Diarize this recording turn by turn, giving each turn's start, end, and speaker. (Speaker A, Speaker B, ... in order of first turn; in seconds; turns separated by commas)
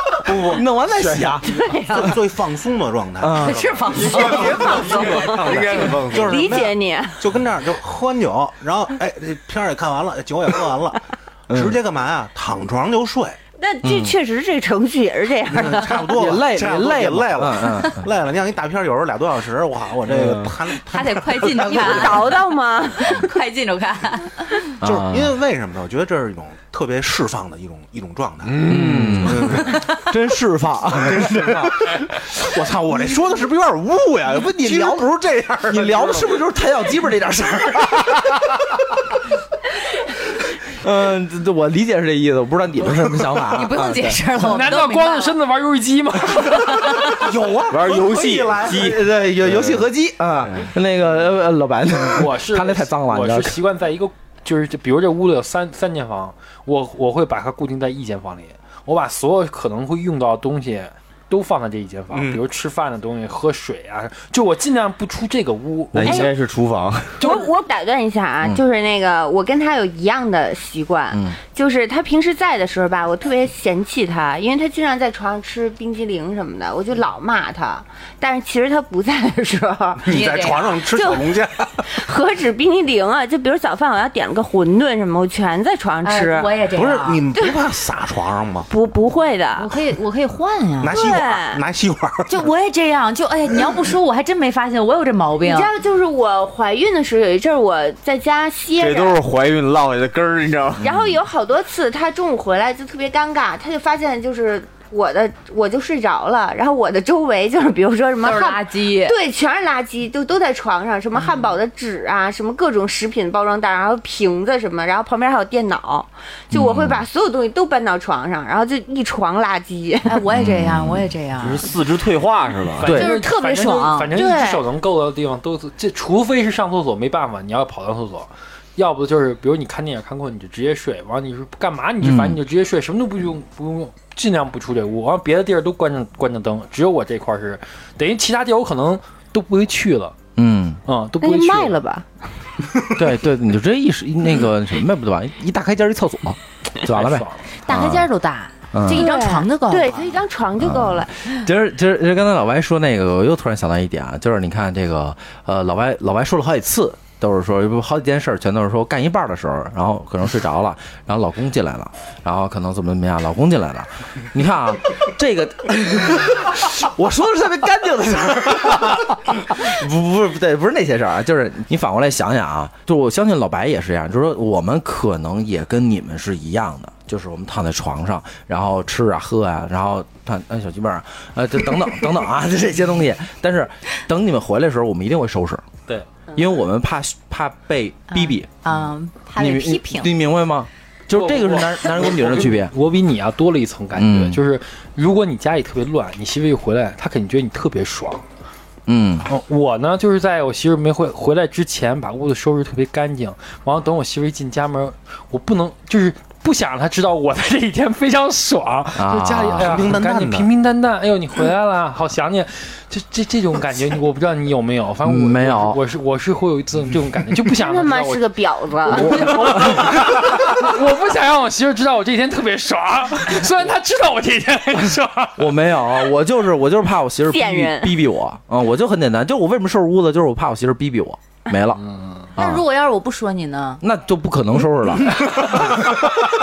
Speaker A: 0.2-13.4, Speaker B: 0.4-2.1, Speaker C: 1.4-2.1, Speaker B: 3.2-3.6, Speaker D: 3.3-5.3, Speaker E: 3.9-6.5, Speaker C: 6.1-7.2, Speaker B: 11.5-11.8, Speaker C: 13.6-16.1, Speaker B: 13.8-14.1, Speaker A: 15.5-22.1, Speaker B: 15.8-18.1, Speaker D: 20.9-22.3, Speaker C: 21.5-23.2, Speaker B: 21.7-22.4, Speaker D: 23.0-24.6, Speaker B: 24.8-25.3, Speaker A: 24.8-30.0, Speaker E: 28.4-29.6, Speaker B: 28.6-32.5, Speaker A: 30.9-36.4, Speaker B: 34.3-35.1, Speaker B: 35.7-38.2, Speaker B: 40.7-44.2, Speaker D: 43.5-45.4, Speaker F: 44.4-47.1, Speaker D: 46.5-47.1, Speaker A: 47.1-48.9, Speaker E: 47.7-49.9, Speaker B: 48.7-53.6, Speaker F: 52.1-66.3, Speaker A: 62.1-62.4, Speaker E: 65.9-67.2, Speaker C: 66.0-66.3, Speaker F: 67.2-67.5, Speaker C: 67.2-80.0, Speaker B: 71.1-71.4, Speaker A: 80.0-82.0, Speaker D: 80.1-80.7, Speaker C: 80.8-86.5, Speaker D: 86.0-87.2, Speaker A: 86.7-88.7, Speaker C: 88.7-89.7, Speaker D: 89.6-91.0, Speaker A: 90.8-92.4, Speaker C: 90.9-91.6, Speaker D: 92.3-95.7, Speaker C: 95.4-99.2, Speaker E: 98.8-100.8, Speaker C: 100.8-120.2, Speaker B: 100.8-101.2, Speaker D: 108.2-109.2, Speaker D: 111.2-111.5, Speaker B: 116.5-117.0, Speaker D: 120.0-121.7, Speaker B: 120.3-121.1, Speaker E: 121.4-122.9, Speaker F: 122.8-140.2, Speaker B: 122.8-123.2, Speaker D: 122.9-124.2, Speaker C: 124.1-124.7, Speaker B: 132.0-132.4, Speaker B: 140.3-140.8, Speaker F: 140.8-141.8, Speaker C: 141.2-142.1, Speaker B: 142.9-148.1, Speaker F: 146.9-147.5, Speaker D: 147.6-150.1, Speaker B: 148.7-149.0, Speaker C: 148.9-151.2, Speaker B: 150.6-185.6, Speaker B: 186.3-188.5, Speaker D: 188.1-190.2, Speaker B: 189.4-192.7, Speaker F: 191.1-198.2, Speaker B: 193.9-194.4, Speaker B: 198.9-199.3, Speaker F: 199.2-218.3, Speaker B: 208.9-209.9, Speaker A: 209.6-210.5, Speaker B: 215.0-215.8, Speaker C: 217.5-219.8, Speaker F: 218.8-225.6, Speaker B: 225.4-231.8, Speaker C: 227.3-228.0, Speaker F: 231.8-232.3, Speaker B: 232.3-232.6, Speaker D: 232.4-233.8, Speaker B: 233.8-236.3